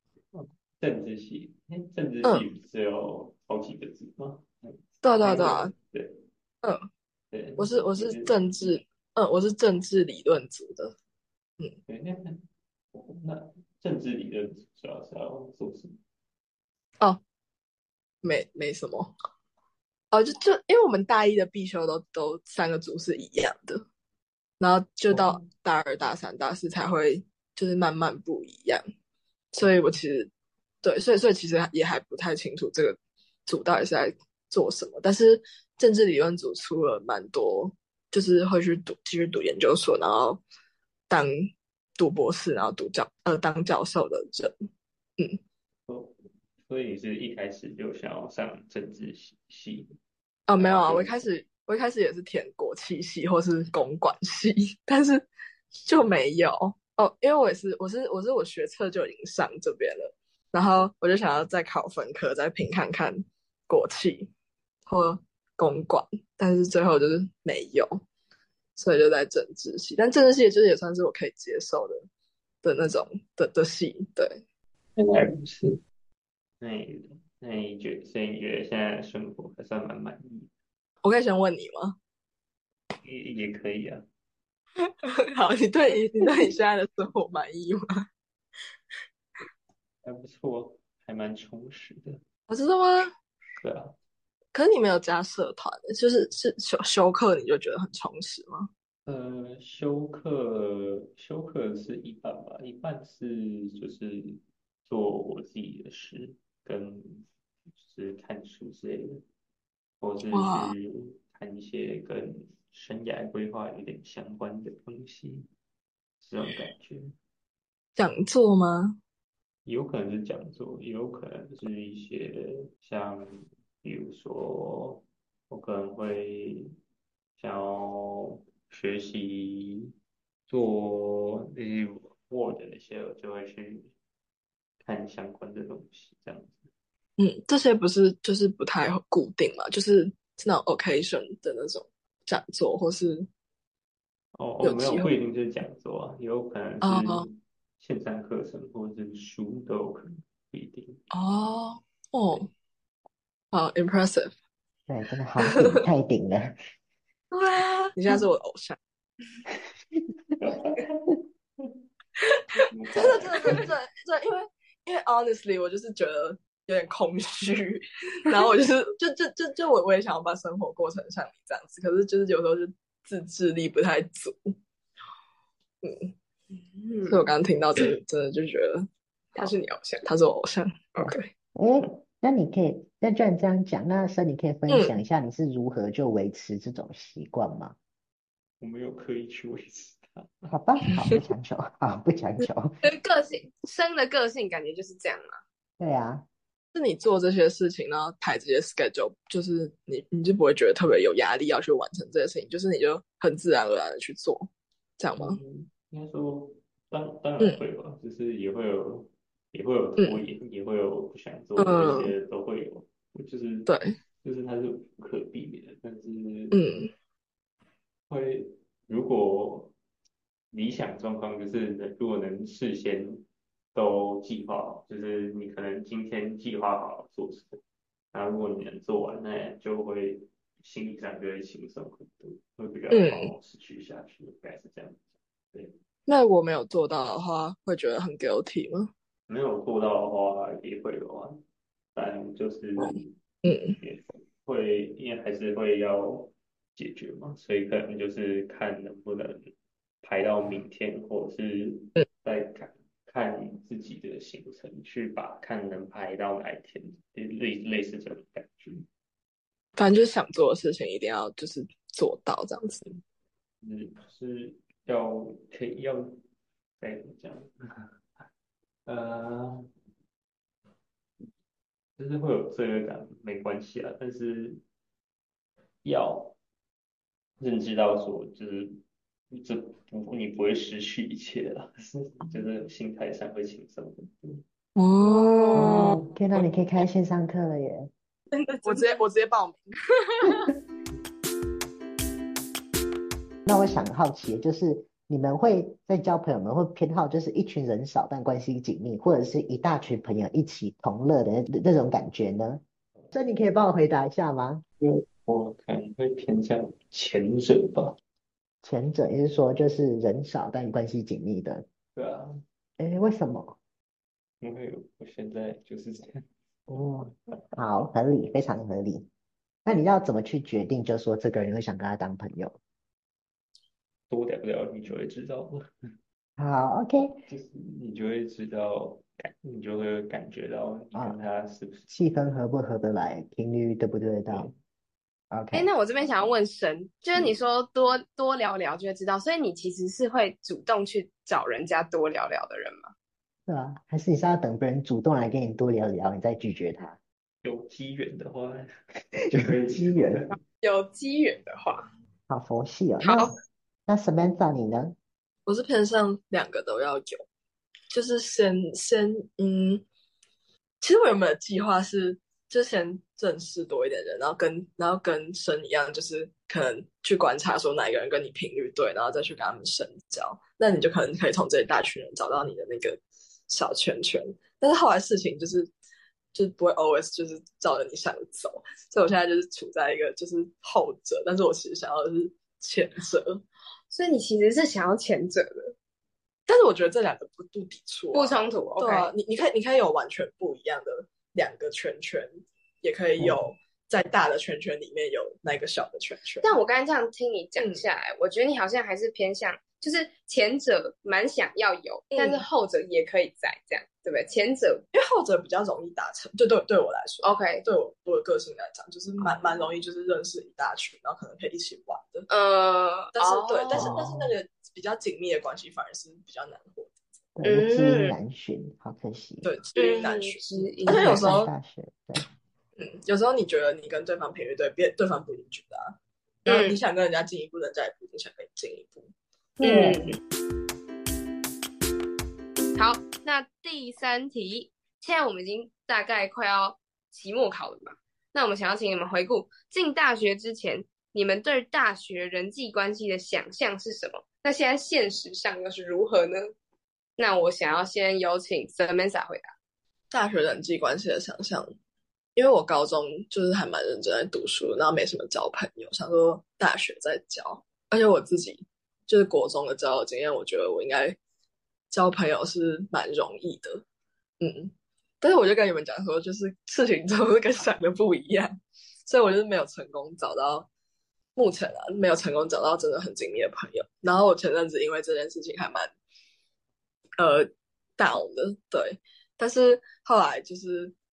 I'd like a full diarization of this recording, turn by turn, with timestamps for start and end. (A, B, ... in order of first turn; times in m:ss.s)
0:00.3-0:06.2 A
0:05.0-0:05.7 B
0:07.3-0:08.4 A
0:07.6-0:10.9 B
0:11.9-0:16.0 A
0:18.2-0:19.1 B
0:20.1-0:23.8 B
0:24.6-0:28.8 B
0:25.1-0:25.4 A
0:29.5-0:30.3 B
0:30.8-0:40.4 B
0:41.1-0:44.5 B
0:45.9-0:49.9 A
0:50.5-0:55.3 B
0:50.6-0:51.2 A
0:55.8-1:04.3 B
1:04.9-1:08.0 B
1:08.8-1:12.0 B
1:12.6-1:14.4 B
1:15.0-1:15.8 A
1:16.6-1:20.5 A
1:21.0-1:22.0 B
1:23.0-1:24.0 A
1:24.8-1:28.0 B
1:30.0-1:32.2 A
1:32.5-1:33.1 B
1:33.6-1:34.0 A
1:34.5-1:38.7 B
1:39.0-1:49.2 A
1:50.0-1:55.5 A
1:50.3-1:50.7 B
1:56.2-1:57.2 A
1:58.0-1:59.0 B
1:59.6-2:06.7 A
2:07.4-2:09.9 A
2:10.5-2:13.9 A
2:14.8-2:16.7 A
2:17.2-2:23.3 B
2:24.3-2:31.0 A
2:24.6-2:25.1 B
2:26.8-2:27.3 B
2:31.1-2:32.5 B
2:33.5-2:34.3 B
2:34.9-2:36.6 C
2:35.4-2:35.8 B
2:37.3-2:38.8 B
2:40.4-2:41.7 A
2:42.5-2:43.7 A
2:42.9-2:54.6 B
2:55.8-2:56.1 B
2:56.8-2:57.2 D
2:57.0-2:59.5 B
2:59.3-3:00.1 D
3:00.0-3:01.3 B
3:01.0-3:07.8 C
3:04.7-3:04.9 B
3:08.6-3:10.5 A
3:10.5-3:12.8 C
3:12.8-3:15.4 D
3:15.8-3:16.2 C
3:16.7-3:25.4 B
3:25.1-3:36.6 A
3:30.0-3:30.2 B
3:31.6-3:32.1 B
3:33.7-3:34.0 B
3:36.5-3:36.9 B
3:38.1-3:39.7 A
3:40.5-3:47.6 A
3:48.1-3:55.8 A
3:52.9-3:53.3 B
3:56.1-3:58.9 B
3:59.3-4:01.4 A
4:01.9-4:03.1 A
4:02.8-4:03.8 B
4:03.7-4:18.8 A
4:19.8-4:23.0 B
4:23.6-4:26.2 A
4:26.8-4:28.2 A
4:28.8-4:29.7 A
4:32.0-4:34.6 A
4:35.8-4:36.4 A
4:37.4-4:44.4 A
4:44.8-4:46.0 B
4:45.0-4:45.9 D
4:45.6-4:46.5 A
4:46.1-4:47.9 C
4:48.5-4:49.0 D
4:48.5-4:49.8 B
4:50.1-4:50.5 D
4:53.4-5:04.6 C
5:04.8-5:08.0 A
5:08.6-5:11.6 C
5:11.9-5:12.4 A
5:12.8-5:13.6 C
5:14.4-5:16.2 A
5:16.7-5:19.1 C
5:19.6-5:22.6 C
5:24.1-5:25.7 A
5:26.4-5:27.2 C
5:27.3-5:31.9 A
5:31.9-5:34.5 C
5:35.3-5:35.7 C
5:35.5-5:42.9 D
5:43.4-5:47.0 C
5:47.4-5:50.4 A
5:49.4-5:50.3 C
5:50.6-5:51.9 D
5:52.3-5:53.3 C
5:53.0-5:53.3 D
5:53.9-5:54.9 C
5:55.4-5:57.2 B
5:57.9-5:59.8 B
6:00.8-6:15.7 B
6:16.3-6:23.4 B
6:23.9-6:25.7 D
6:26.5-6:36.5 B
6:28.1-6:29.1 D
6:33.2-6:33.4 C
6:36.4-6:44.8 D
6:37.6-6:37.8 B
6:42.1-6:42.4 B
6:44.9-6:52.3 B
6:47.2-6:47.6 D
6:52.3-6:54.0 D
6:53.1-6:56.9 B
6:53.7-6:54.3 C
6:57.4-6:59.5 C
6:57.4-6:58.2 D
6:59.4-7:01.5 B
6:59.8-7:01.2 D
7:00.8-7:02.2 C
7:02.8-7:09.1 B
7:06.4-7:06.8 D
7:09.6-7:10.0 C
7:09.6-7:10.1 D
7:09.6-7:10.0 B
7:12.8-7:26.5 D
7:27.2-7:29.5 D
7:30.1-7:31.7 B
7:32.4-7:41.2 B
7:41.9-7:43.8 B
7:44.4-7:50.7 B
7:51.4-7:55.9 B
7:57.2-8:00.9 B